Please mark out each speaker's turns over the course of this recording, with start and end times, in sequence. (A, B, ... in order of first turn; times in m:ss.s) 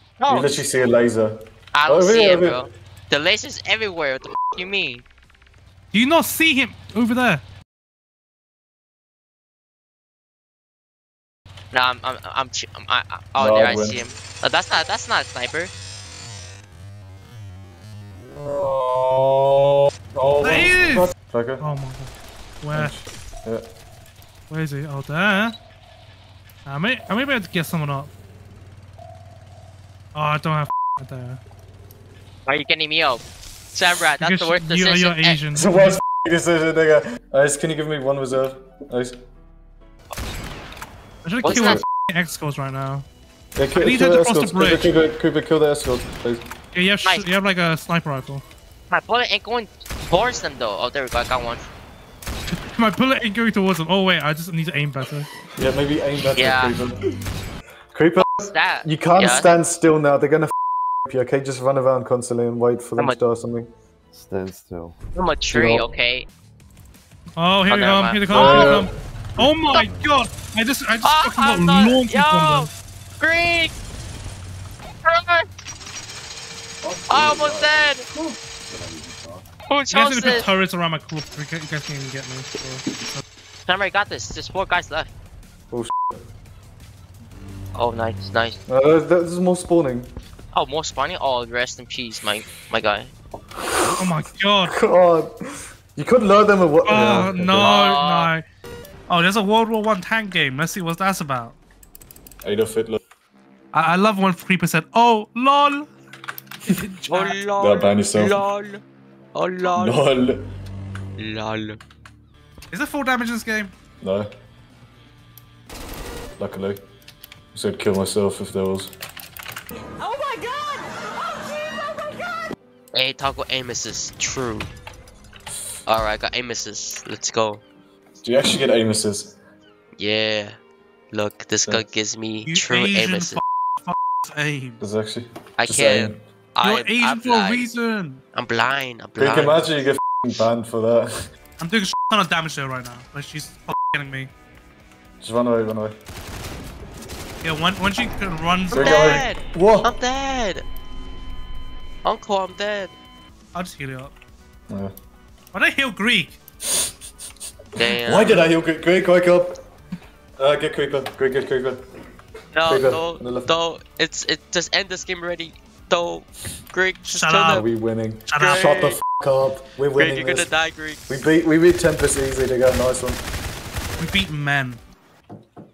0:00.2-0:00.6 A
0:00.3-0:02.6 B
0:01.7-0:05.0 A
0:05.9-0:07.4 C
0:11.7-0:15.7 A
0:13.4-0:14.0 B
0:18.3-0:21.6 B
0:20.4-0:22.1 C
0:22.6-0:22.9 C
0:22.7-0:23.6 B
0:24.5-0:25.6 C
0:26.6-0:28.1 C
0:30.1-0:31.4 C
0:32.4-0:35.4 A
0:34.2-0:36.0 C
0:35.5-0:39.2 B
0:41.2-0:43.0 C
0:41.4-0:41.8 A
0:41.5-0:41.8 B
0:43.6-0:46.4 B
0:43.8-0:44.9 C
0:46.7-0:48.4 C
0:48.9-0:51.6 A
0:52.5-0:55.3 C
0:55.6-0:57.0 B
0:56.3-0:56.8 A
0:57.9-1:00.5 B
0:58.2-0:59.6 A
1:01.0-1:03.7 B
1:04.1-1:05.0 D
1:05.1-1:06.3 A
1:05.5-1:05.9 B
1:07.4-1:12.7 C
1:07.7-1:08.7 A
1:08.3-1:08.9 B
1:09.4-1:10.2 D
1:11.0-1:13.7 A
1:15.0-1:15.5 A
1:16.8-1:17.7 D
1:16.8-1:17.3 B
1:17.1-1:18.0 A
1:18.6-1:19.5 D
1:19.7-1:20.4 A
1:19.9-1:23.2 C
1:23.6-1:25.1 A
1:25.7-1:26.2 B
1:27.7-1:28.6 A
1:28.7-1:30.1 B
1:30.5-1:33.1 A
1:33.6-1:34.0 B
1:34.0-1:34.8 C
1:34.6-1:35.3 B
1:35.9-1:37.8 B
1:36.8-1:38.4 C
1:37.2-1:38.3 A
1:39.1-1:41.6 C
1:42.4-1:43.0 B
1:43.7-1:45.9 C
1:46.6-1:47.4 C
1:47.1-1:48.8 A
1:47.6-1:48.4 B
1:49.3-1:50.0 A
1:49.7-1:50.4 B
1:51.2-1:51.8 A
1:52.7-1:53.7 C
1:54.0-1:54.3 B
1:56.4-1:56.8 B
1:57.5-1:58.9 B
2:02.9-2:04.7 A
2:05.8-2:07.6 A
2:08.2-2:09.3 B
2:10.0-2:10.6 A
2:11.1-2:13.4 A
2:12.4-2:14.8 C
2:14.8-2:16.2 B
2:15.6-2:17.7 A
2:16.6-2:18.2 C
2:18.3-2:19.7 A
2:19.2-2:21.1 B
2:21.6-2:24.3 C
2:25.2-2:26.0 B
2:27.4-2:29.2 C
2:28.7-2:29.9 B
2:28.7-2:30.6 A
2:32.0-2:32.9 A
2:33.5-2:34.1 C
2:35.5-2:36.4 C
2:37.8-2:38.4 A
2:38.0-2:39.6 B
2:40.4-2:41.8 B
2:42.5-2:47.6 A
2:42.7-2:43.5 B
2:47.0-2:47.6 C
2:47.5-2:50.5 B
2:48.3-2:48.7 C
2:48.4-2:49.0 A
2:49.9-2:51.2 A
2:51.1-2:53.2 B
2:54.0-2:54.8 C